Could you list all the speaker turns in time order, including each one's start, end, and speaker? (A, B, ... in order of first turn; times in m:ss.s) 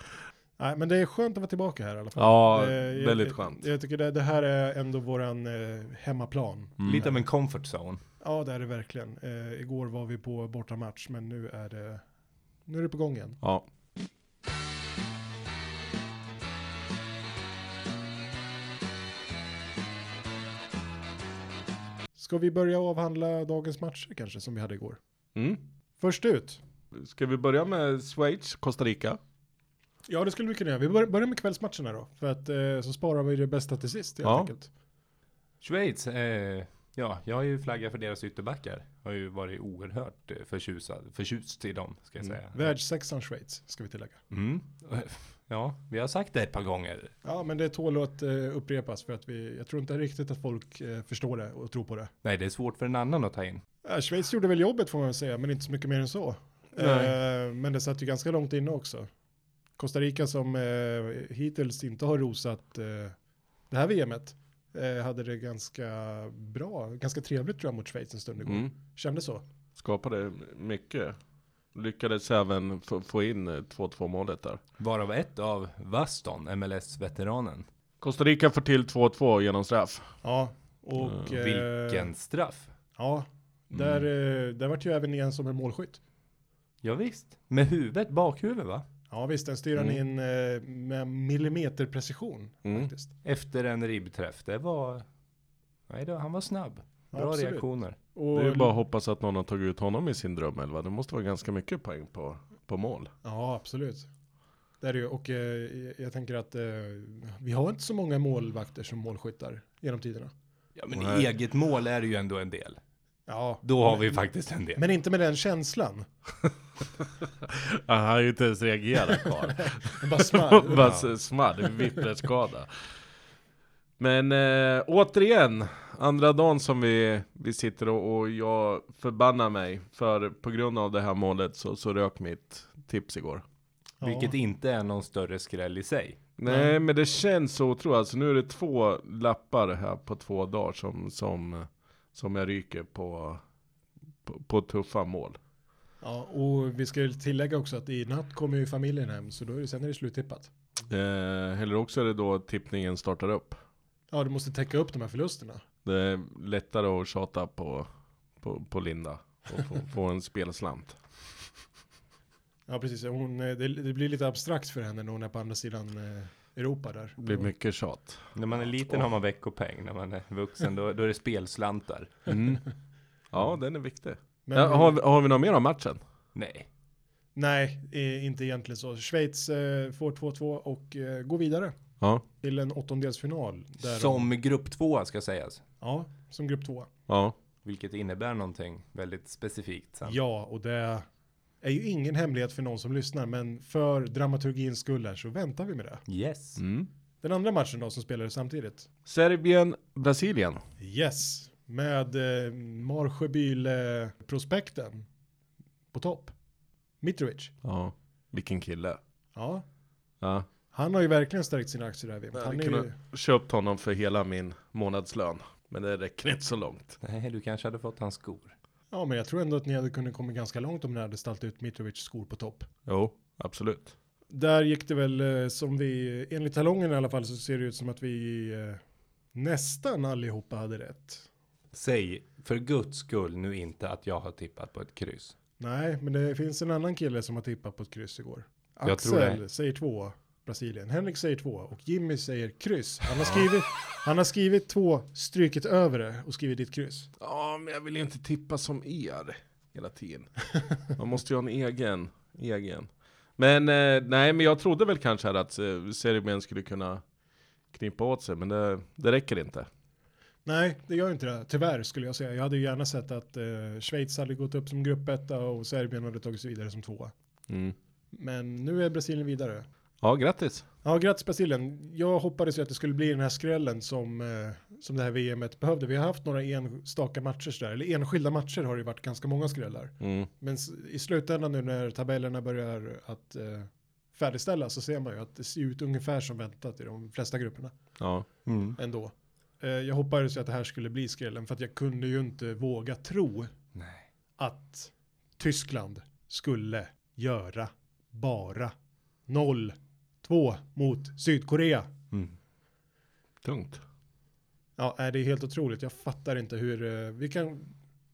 0:00.6-0:07.2 A
0:02.2-0:03.6 B
0:06.8-0:07.1 B
0:06.8-0:08.0 C
0:08.2-0:13.4 A
0:22.2-0:25.0 A
0:26.0-0:26.6 A
0:26.9-0:29.2 B
0:30.0-0:34.7 A
0:34.2-0:34.5 B
0:35.6-0:42.8 C
0:42.5-0:44.2 A
0:44.3-0:47.1 C
0:47.2-0:52.1 A
0:52.2-0:53.6 C
0:53.8-0:59.1 A
0:56.8-0:57.1 B
0:59.8-1:09.4 A
1:08.4-1:08.7 B
1:09.8-1:11.2 B
1:11.7-1:14.6 B
1:14.8-1:17.7 C
1:18.0-1:20.2 B
1:20.2-1:22.1 A
1:21.3-1:22.7 C
1:23.0-1:26.0 A
1:23.7-1:24.0 B
1:26.8-1:28.8 C
1:29.1-1:33.1 A
1:32.6-1:32.9 B
1:33.2-1:35.1 C
1:35.9-1:38.0 C
1:37.1-1:38.7 A
1:38.3-1:43.1 B
1:43.2-1:44.1 A
1:44.8-1:50.3 A
1:50.8-1:52.8 C
1:50.9-1:51.3 B
1:53.3-1:56.1 A
1:53.6-1:54.8 C
1:57.4-2:03.0 B
1:59.8-2:01.0 A
2:00.8-2:01.1 C
2:04.0-2:13.4 B
2:14.0-2:14.3 A
2:14.0-2:16.2 C
2:16.4-2:23.4 B
2:16.5-2:16.7 A
2:24.2-2:25.4 B
2:26.0-2:30.5 A
2:30.9-2:33.6 B
2:34.1-2:35.6 A
2:35.8-2:41.1 B
2:42.7-2:47.5 A
2:47.2-2:48.3 B
2:48.3-2:52.3 C
2:52.3-2:52.7 B
2:53.3-2:56.0 B
2:54.4-2:55.0 A
2:56.3-2:56.7 C
2:57.3-3:04.3 A
3:03.8-3:05.6 C
3:05.8-3:06.9 A
3:07.1-3:07.3 B
3:07.6-3:10.2 C
3:10.0-3:11.0 A
3:11.6-3:16.0 A
3:16.1-3:16.6 C
3:16.6-3:16.9 B
3:17.2-3:18.9 A
3:19.0-3:20.6 B
3:20.8-3:25.1 A
3:25.9-3:26.3 A
3:27.0-3:27.5 A
3:27.6-3:29.0 B
3:29.3-3:29.6 A
3:30.2-3:30.5 B
3:30.7-3:33.0 A
3:32.3-3:37.0 B
3:37.0-3:38.5 C
3:38.9-3:42.7 A
3:42.8-3:43.9 B
3:44.3-3:51.3 A
3:51.7-3:55.4 C
3:55.6-4:07.1 A
3:58.8-3:59.4 C
4:07.2-4:17.0 B
4:17.7-4:19.7 B
4:20.4-4:27.1 A
4:27.5-4:27.7 B
4:28.1-4:29.6 A
4:30.0-4:30.6 B
4:30.8-4:47.8 A
4:40.0-4:40.3 B
4:48.0-4:48.2 B
4:48.4-4:48.8 C
4:48.8-4:53.5 A
4:53.7-4:54.1 C
4:54.4-4:58.7 A
4:59.3-5:01.9 A
5:02.1-5:02.4 C
5:03.4-5:03.8 B
5:04.8-5:07.7 A